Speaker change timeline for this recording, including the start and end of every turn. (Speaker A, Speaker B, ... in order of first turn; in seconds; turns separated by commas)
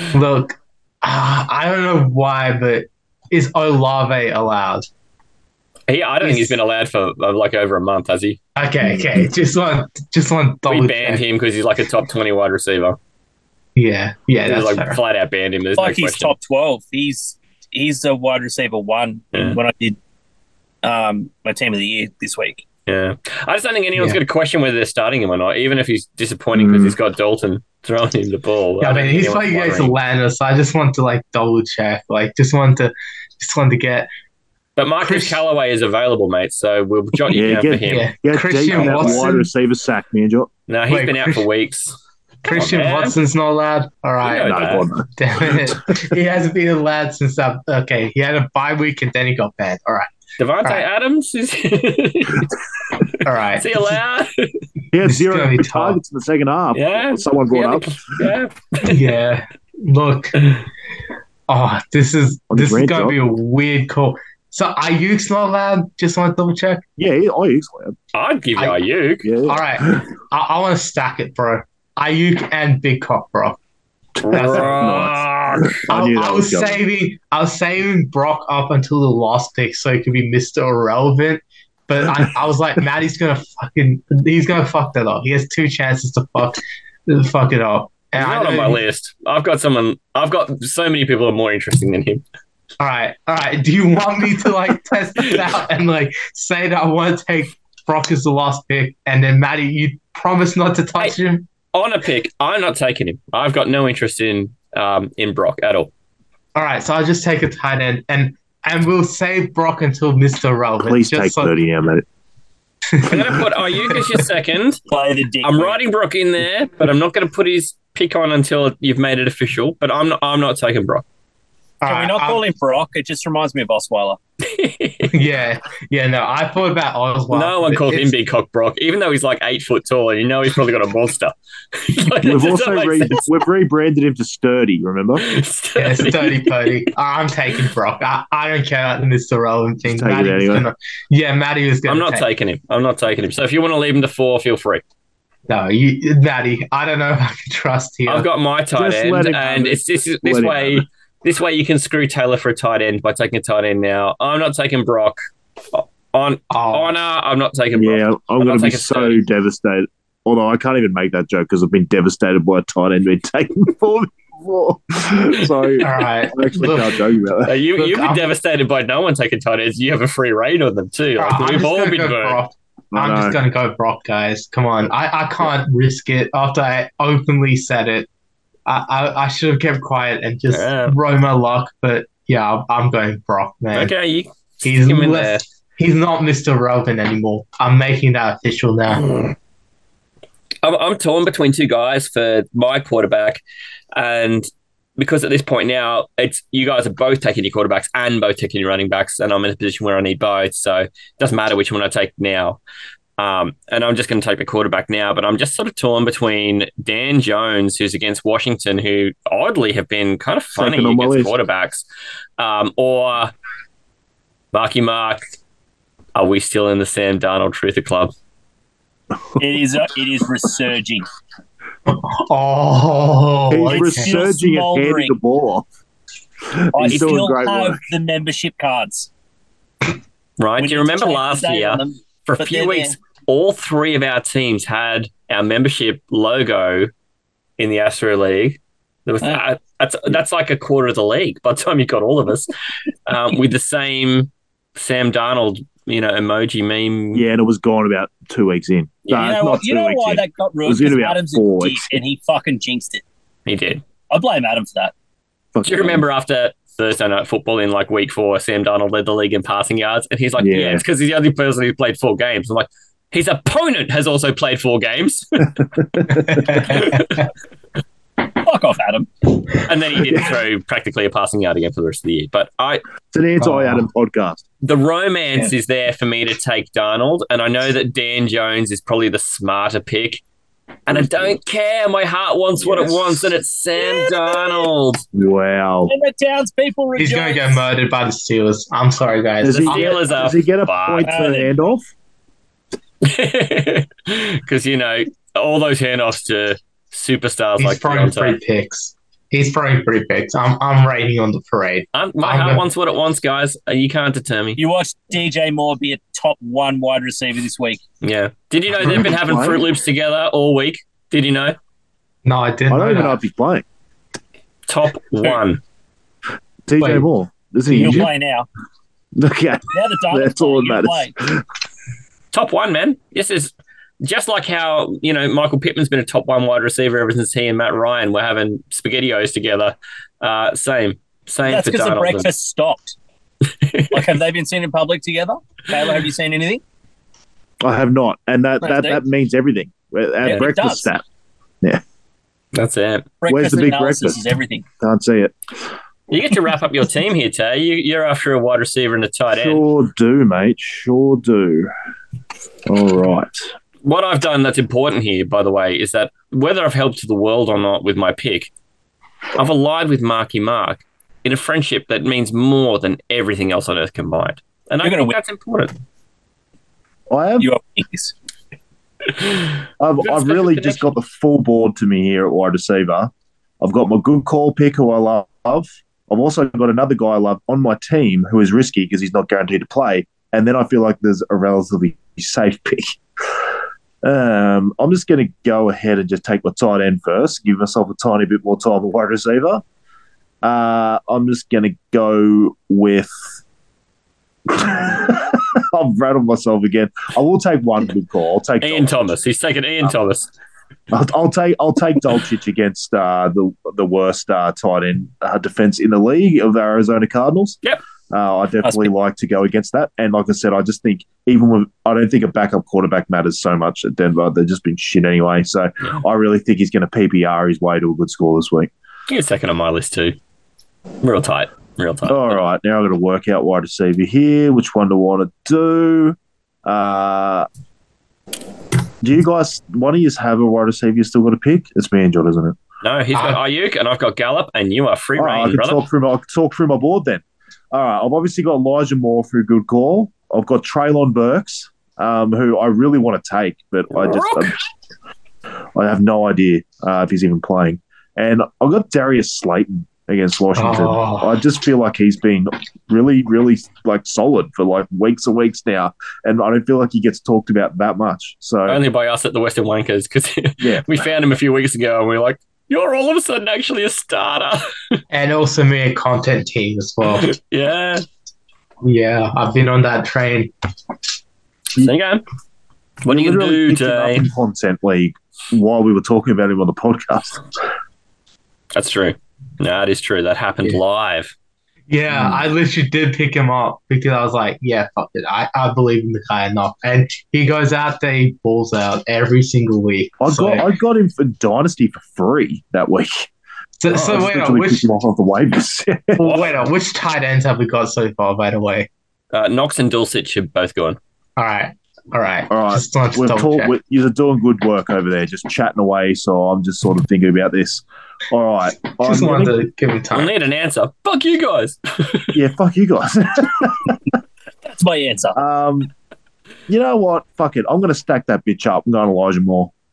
Speaker A: 0.1-4.9, Speaker B: 5.9-8.4, Speaker A: 6.2-6.6, Speaker A: 8.6-11.2, Speaker C: 8.8-9.2, Speaker B: 10.7-13.0, Speaker A: 13.8-15.0, Speaker B: 14.4-16.4, Speaker D: 15.8-20.0, Speaker B: 19.3-19.6, Speaker D: 20.8-22.6, Speaker B: 22.9-29.9, Speaker C: 26.5-26.9, Speaker A: 28.8-34.1, Speaker B: 34.8-38.1, Speaker A: 35.0-35.4, Speaker C: 37.3-40.5, Speaker A: 37.9-39.5, Speaker B: 38.7-39.3, Speaker B: 40.7-43.2, Speaker A: 40.9-41.4, Speaker A: 42.4-50.1, Speaker B: 44.2-44.9, Speaker C: 44.4-45.8, Speaker B: 50.4-52.5, Speaker A: 53.2-54.0, Speaker B: 53.6-54.5, Speaker C: 54.9-57.9, Speaker A: 55.0-56.0, Speaker B: 56.7-59.0, Speaker A: 58.8-60.4, Speaker A: 61.5-66.8, Speaker C: 62.5-63.2, Speaker C: 67.0-68.0, Speaker B: 68.1-69.3, Speaker C: 69.2-70.0, Speaker A: 69.4-73.6, Speaker C: 74.2-76.8, Speaker B: 74.2-75.7, Speaker A: 74.3-75.2, Speaker A: 75.9-88.8, Speaker B: 88.2-92.2, Speaker A: 92.8-101.5, Speaker B: 101.7-105.9, Speaker A: 106.6-111.5, Speaker C: 110.8-112.1, Speaker A: 112.9-114.2, Speaker B: 113.1-114.8, Speaker D: 114.9-115.8, Speaker B: 115.4-121.0, Speaker A: 121.8-122.4, Speaker D: 121.9-124.2, Speaker B: 124.4-125.1, Speaker A: 125.1-128.1, Speaker B: 127.3-133.2, Speaker C: 132.2-135.2, Speaker B: 135.2-136.7, Speaker A: 135.8-142.2, Speaker C: 139.9-140.7, Speaker B: 141.9-144.8, Speaker A: 145.5-148.3, Speaker B: 148.1-155.2, Speaker C: 148.7-150.8, Speaker B: 155.7-159.2, Speaker A: 156.5-156.9, Speaker C: 157.7-167.5, Speaker A: 165.8-167.0, Speaker B: 167.4-172.4, Speaker A: 167.8-168.3, Speaker A: 171.2-178.1, Speaker C: 172.9-173.4, Speaker A: 178.7-183.9, Speaker B: 180.5-181.0, Speaker B: 183.7-185.4, Speaker A: 184.6-189.1, Speaker B: 190.6-193.4, Speaker B: 193.9-202.6, Speaker B: 203.2-211.8, Speaker C: 210.5-211.3, Speaker B: 212.4-213.3, Speaker B: 214.5-215.2, Speaker B: 216.1-218.1, Speaker D: 219.4-221.1, Speaker A: 221.9-224.2, Speaker C: 223.5-225.6, Speaker D: 223.7-225.1, Speaker C: 226.5-227.8, Speaker D: 226.7-229.1, Speaker B: 226.9-227.2, Speaker B: 230.4-236.9, Speaker D: 230.6-232.9, Speaker B: 237.6-242.5, Speaker B: 243.1-247.2, Speaker C: 247.1-252.0, Speaker D: 249.1-253.0, Speaker B: 253.4-253.8, Speaker D: 254.1-254.9, Speaker C: 255.5-256.0, Speaker B: 255.6-265.6, Speaker C: 260.4-260.8, Speaker C: 265.8-266.3, Speaker A: 266.1-267.0, Speaker B: 266.4-267.2, Speaker D: 268.4-269.3, Speaker B: 269.6-272.8, Speaker C: 273.1-274.4, Speaker A: 273.4-273.9, Speaker B: 274.6-280.2, Speaker B: 280.9-285.0, Speaker C: 280.9-281.4, Speaker C: 282.6-283.3, Speaker C: 285.1-285.9, Speaker D: 285.9-287.7, Speaker A: 287.0-290.0, Speaker C: 289.4-291.9, Speaker B: 289.6-291.1, Speaker D: 291.0-291.5, Speaker B: 293.0-298.4, Speaker A: 297.6-302.6, Speaker B: 301.9-304.6, Speaker D: 304.6-307.8, Speaker B: 308.0-311.6, Speaker C: 308.8-309.7, Speaker A: 312.2-313.2, Speaker C: 312.7-313.6, Speaker B: 314.7-315.6, Speaker C: 316.7-318.1, Speaker A: 316.8-317.1, Speaker A: 317.6-318.0, Speaker D: 317.7-318.5, Speaker C: 319.1-321.4, Speaker D: 319.7-321.1, Speaker B: 322.3-332.3, Speaker D: 331.4-332.9, Speaker B: 333.6-334.1, Speaker D: 333.9-336.6, Speaker C: 337.6-341.0, Speaker D: 338.6-339.0, Speaker D: 340.2-340.9, Speaker B: 342.5-343.1, Speaker D: 343.2-344.6, Speaker C: 343.3-344.2, Speaker C: 344.8-345.3, Speaker B: 346.1-349.6, Speaker C: 349.3-351.7, Speaker C: 352.7-353.4, Speaker B: 353.8-358.5, Speaker B: 359.4-365.7, Speaker D: 364.8-365.2, Speaker C: 367.1-367.5, Speaker D: 367.4-368.1, Speaker C: 369.8-382.9, Speaker B: 370.0-370.9, Speaker C: 384.0-389.6, Speaker C: 390.4-393.1, Speaker C: 394.5-398.9, Speaker B: 398.6-400.3, Speaker C: 400.9-407.6, Speaker C: 408.1-418.7, Speaker D: 408.6-408.9, Speaker B: 419.1-420.2, Speaker B: 421.0-422.4, Speaker C: 422.1-427.5, Speaker C: 429.0-432.6, Speaker B: 432.8-435.8, Speaker C: 435.1-444.6, Speaker B: 443.9-444.6, Speaker C: 445.8-458.8, Speaker A: 450.6-451.4, Speaker B: 458.7-465.0, Speaker A: 465.1-467.3, Speaker B: 467.1-468.0, Speaker A: 468.8-470.5, Speaker B: 471.8-472.2, Speaker B: 473.0-474.2, Speaker C: 473.1-477.4, Speaker B: 478.7-481.3, Speaker A: 481.9-490.7, Speaker C: 482.1-482.4, Speaker C: 490.2-493.3, Speaker A: 493.8-494.9, Speaker C: 493.9-496.3, Speaker A: 496.2-498.9, Speaker B: 496.2-496.6, Speaker B: 499.3-501.0, Speaker A: 501.4-503.7, Speaker C: 502.5-509.6, Speaker A: 508.9-510.3, Speaker B: 510.1-512.4, Speaker C: 512.3-514.1, Speaker D: 514.6-515.4, Speaker C: 515.4-515.9, Speaker C: 516.7-519.7